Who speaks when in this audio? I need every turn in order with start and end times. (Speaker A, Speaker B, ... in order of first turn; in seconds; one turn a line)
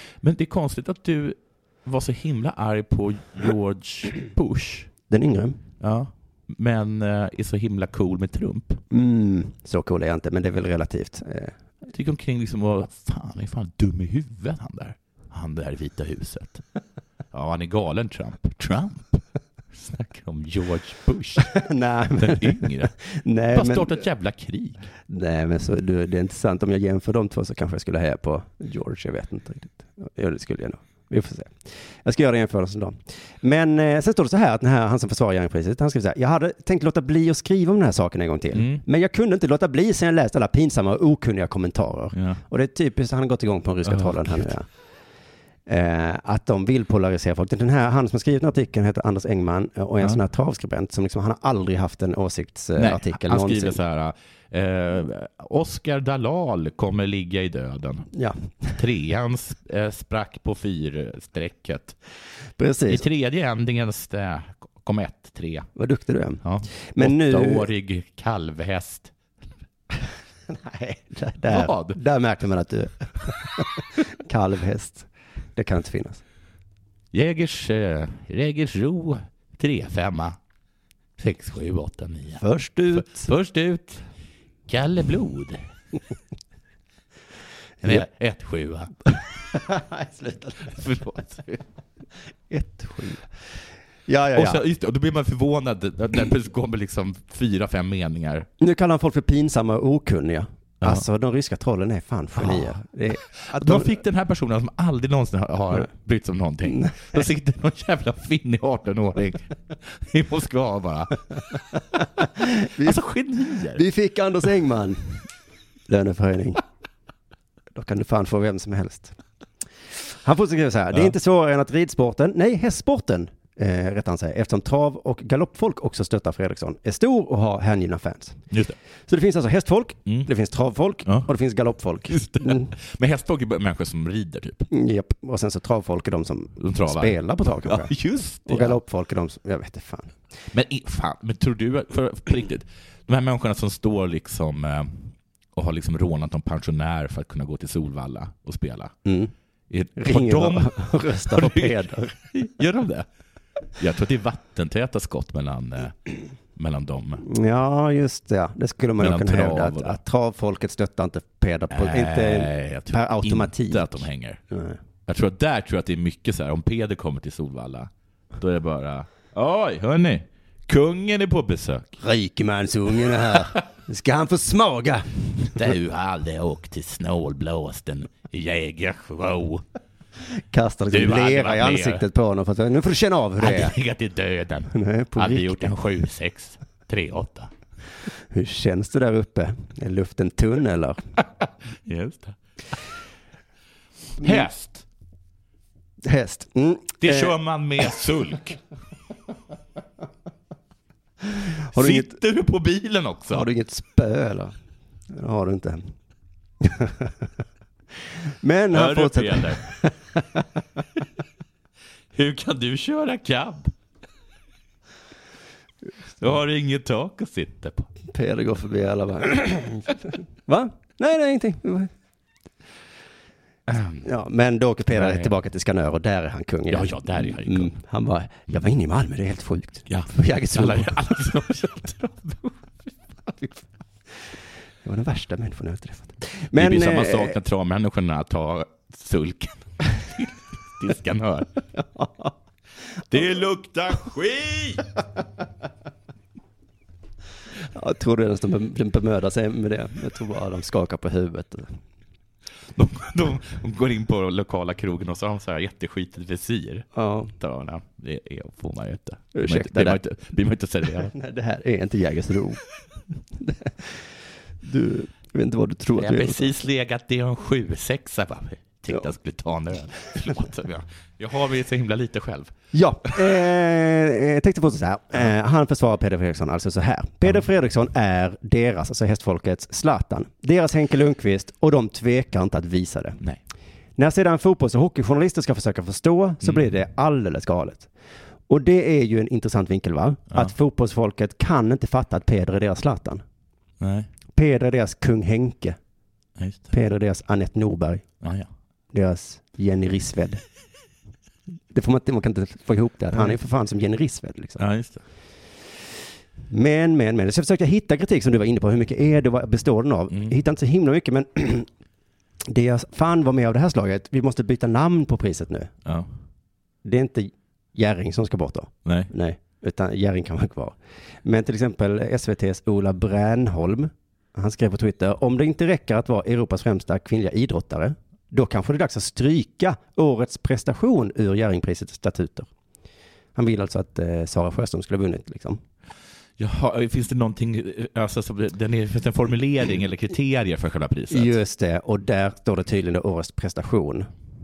Speaker A: 0.2-4.9
Speaker B: 5.1-5.6
Speaker A: 5.8-8.8
Speaker B: 8.9-11.6
Speaker A: 11.9-16.6
Speaker A: 17.3-21.5
Speaker B: 21.5-24.0
Speaker A: 22.2-22.9
Speaker A: 23.5-24.9
Speaker B: 25.1-44.7
Speaker A: 38.5-38.9
Speaker A: 42.1-42.4
Speaker A: 43.9-44.5
Speaker B: 45.7-53.8
Speaker A: 52.8-58.1
Speaker B: 58.1-58.8
Speaker A: 58.8-62.0
Speaker B: 62.6-63.0
Speaker A: 62.9-65.7
Speaker B: 65.8-67.7
Speaker A: 66.4-69.1
Speaker B: 70.5-76.2
Speaker A: 71.5-72.0
Speaker A: 77.1-80.4
Speaker A: 81.2-84.0
Speaker B: 82.4-83.3
Speaker A: 84.7-85.6
Speaker A: 87.8-89.2
Speaker B: 89.5-90.8
Speaker A: 90.6-91.6
Speaker B: 92.5-93.3
Speaker B: 94.1-94.6
Speaker A: 94.3-98.5
Speaker B: 98.6-104.0
Speaker A: 102.4-102.8
Speaker A: 103.4-111.2
Speaker B: 112.2-113.0
Speaker A: 112.8-113.8
Speaker B: 113.6-115.2
Speaker B: 115.9-116.6
Speaker B: 117.7-119.2
Speaker B: 119.9-128.4
Speaker A: 128.5-128.8
Speaker B: 129.1-132.7
Speaker A: 132.1-134.7
Speaker B: 134.7-137.9
Speaker A: 136.6-138.8
Speaker B: 138.4-140.2
Speaker A: 140.5-148.9
Speaker B: 149.1-149.3
Speaker A: 149.7-153.1
Speaker B: 150.0-152.2
Speaker A: 153.8-157.2
Speaker B: 157.2-164.8
Speaker A: 159.0-160.0
Speaker A: 161.7-164.4
Speaker A: 165.1-172.0
Speaker B: 172.0-175.5
Speaker A: 175.5-179.6
Speaker B: 180.4-183.8
Speaker A: 180.9-182.0
Speaker A: 183.4-187.5
Speaker B: 184.7-185.7
Speaker B: 188.3-191.0
Speaker A: 191.8-192.4
Speaker A: 194.2-194.8
Speaker B: 196.0-197.4
Speaker A: 197.0-198.6
Speaker B: 201.7-202.1
Speaker A: 201.7-203.5
Speaker B: 203.3-204.6
Speaker B: 205.1-205.9
Speaker B: 206.6-207.2
Speaker B: 208.4-210.4
Speaker A: 208.7-209.6
Speaker A: 212.1-213.7
Speaker A: 216.2-217.9
Speaker B: 218.1-221.9
Speaker A: 223.7-224.1
Speaker B: 224.0-231.4
Speaker A: 224.9-225.3
Speaker A: 226.7-227.7
Speaker A: 229.9-232.5
Speaker B: 234.8-237.4
Speaker A: 236.5-241.5
Speaker B: 241.8-242.3
Speaker A: 243.1-244.8
Speaker B: 247.7-251.7
Speaker A: 252.7-261.1
Speaker B: 256.9-257.3
Speaker B: 259.3-260.0
Speaker B: 261.1-262.6
Speaker B: 263.4-264.1
Speaker B: 264.6-266.5
Speaker A: 266.0-272.5
Speaker B: 272.7-283.2
Speaker B: 284.0-287.9
Speaker B: 288.5-293.2
Speaker A: 293.8-294.1
Speaker B: 294.3-295.8
Speaker A: 296.4-296.7
Speaker B: 296.7-298.1
Speaker A: 298.2-298.5
Speaker B: 298.9-300.4
Speaker B: 301.7-304.6
Speaker A: 304.6-305.0
Speaker B: 306.5-311.7
Speaker B: 312.5-315.7
Speaker B: 316.8-332.5
Speaker A: 318.9-319.1
Speaker B: 333.4-335.6
Speaker A: 336.4-341.4
Speaker B: 341.1-344.1